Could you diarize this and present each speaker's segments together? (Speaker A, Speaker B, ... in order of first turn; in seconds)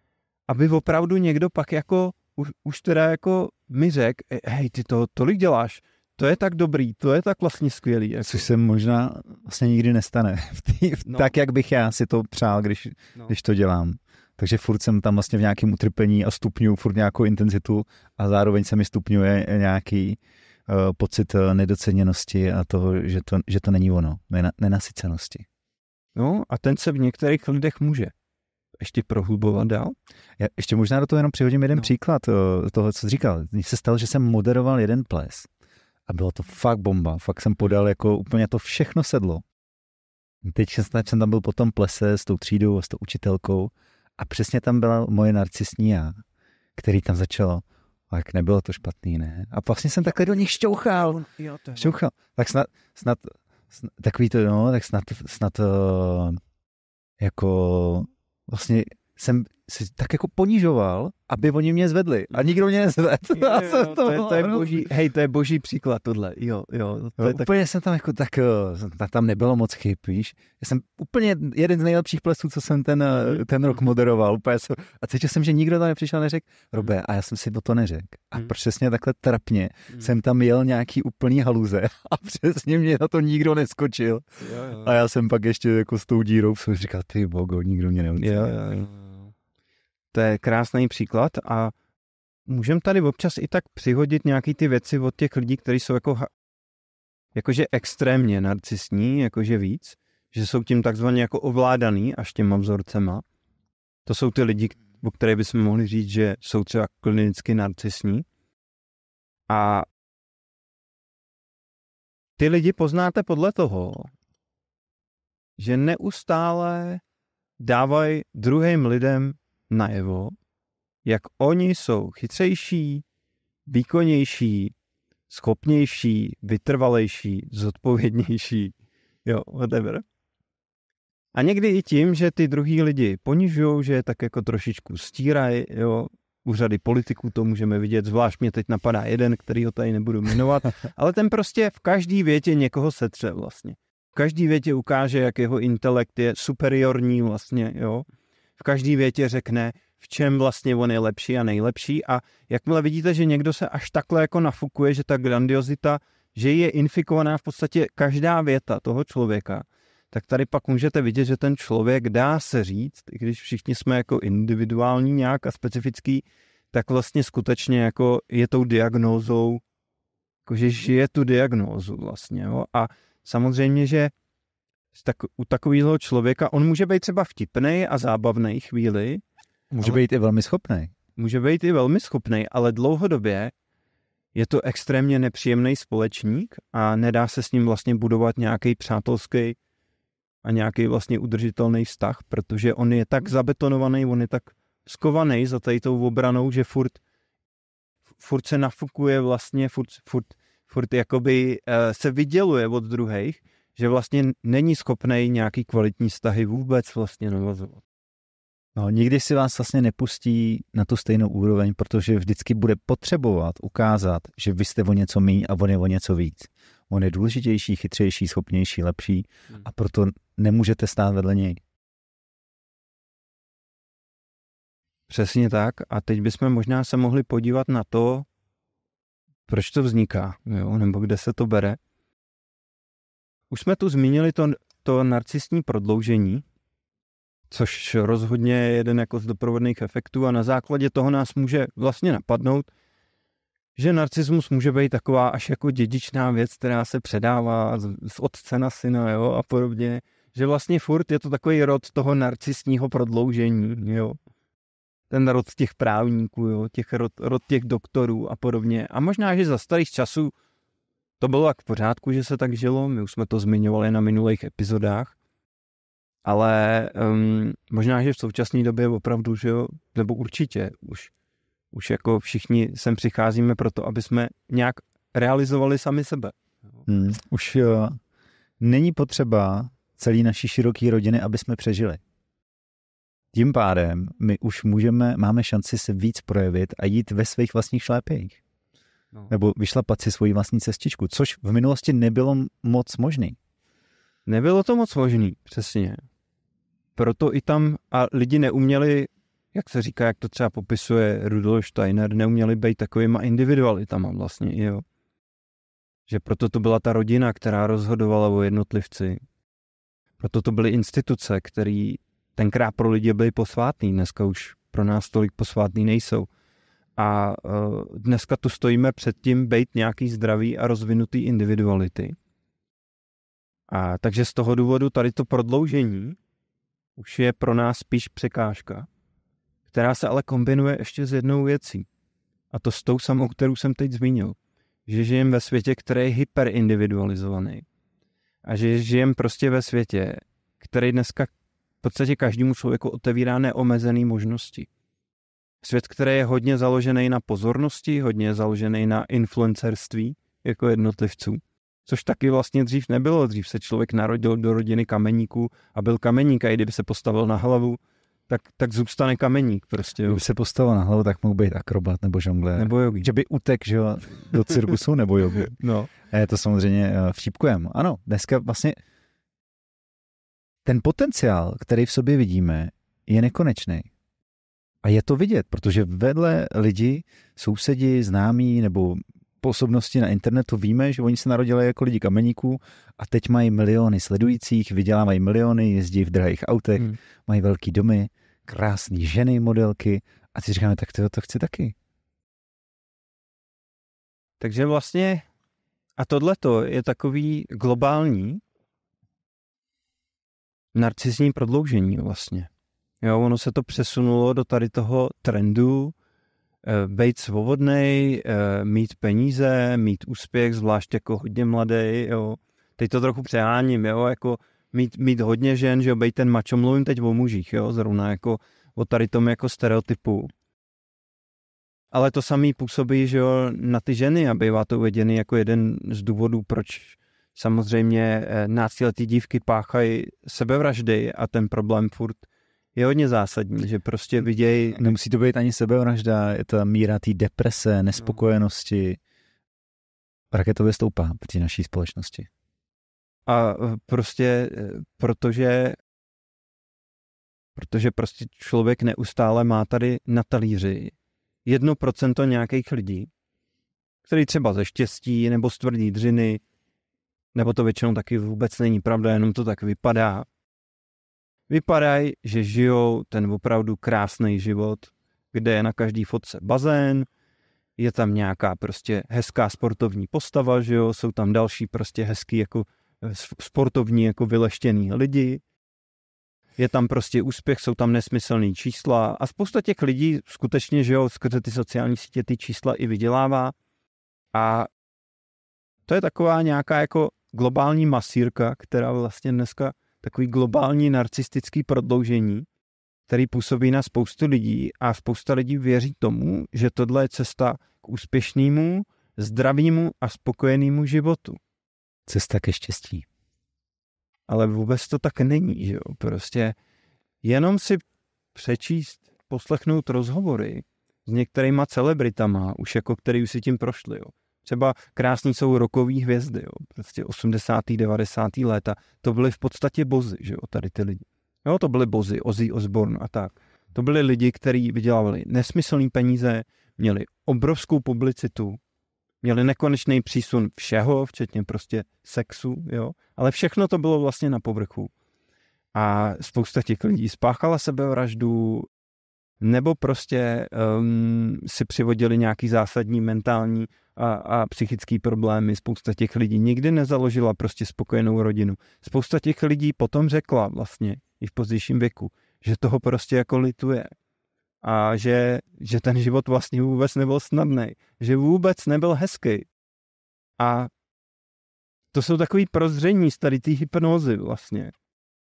Speaker A: 0.5-8.5, 11.1-11.3, 26.2-28.1, 28.8-30.0, 51.1-52.0, 63.3-67.5, 73.1-73.4, 84.4-84.9, 88.2-89.3, 90.1-91.7, 92.5-96.3, 97.3-103.2, 104.1-108.2, 109.5-109.9, 112.4-114.1, 115.6-117.0, 117.6-120.4, 121.0-123.0, 123.7-124.7, 125.3-130.0, 131.3-148.1, 148.6-169.6, 170.5-174.1, 174.9-180.0, 181.2-183.5, 184.3-189.6, 190.4-197.0, 198.2-207.8, 225.1-228.3, 229.5-231.8, 233.5-236.4, 237.5-242.7, 243.8-254.2, 255.1-260.3, 261.2-265.1, 266.2-271.1, 271.7-276.4, 294.3-296.0, 297.0-304.8, 306.1-309.2, 310.2-316.3, 317.0-322.2, 323.7-326.2, 327.0-328.9, 329.7-331.9, 332.5-337.7, 338.4-344.7, 345.6-360.2, 362.6-363.1, 365.3-365.9, 394.4-395.2, 396.0-398.4, 400.7-402.5, 403.0-405.9, 406.6-420.3, 421.9-434.9, 443.3-445.8, 447.6-450.9, 451.4-453.1, 454.1-456.4, 457.4-460.3, 461.5-467.1, 467.8-475.4, 476.6-483.6, 484.3-484.7, 485.9-492.5, 493.1-501.4, 504.3-506.6, 507.2-528.6, 529.2-534.9, 535.8-538.7, 539.4-553.9, 554.6-559.5, 560.4-560.7, 561.9-564.7
Speaker B: 8.2-25.5, 30.4-35.5, 36.1-39.5, 40.4-46.2, 46.8-51.2, 51.8-56.4, 57.2-64.8, 67.2-88.6, 179.8-180.9, 208.8-221.6, 276.9-278.0, 278.6-282.0, 283.3-288.4, 289.3-293.4, 360.1-368.8, 370.6-373.9, 374.8-391.8, 434.8-439.0, 440.3-442.3, 502.1-503.1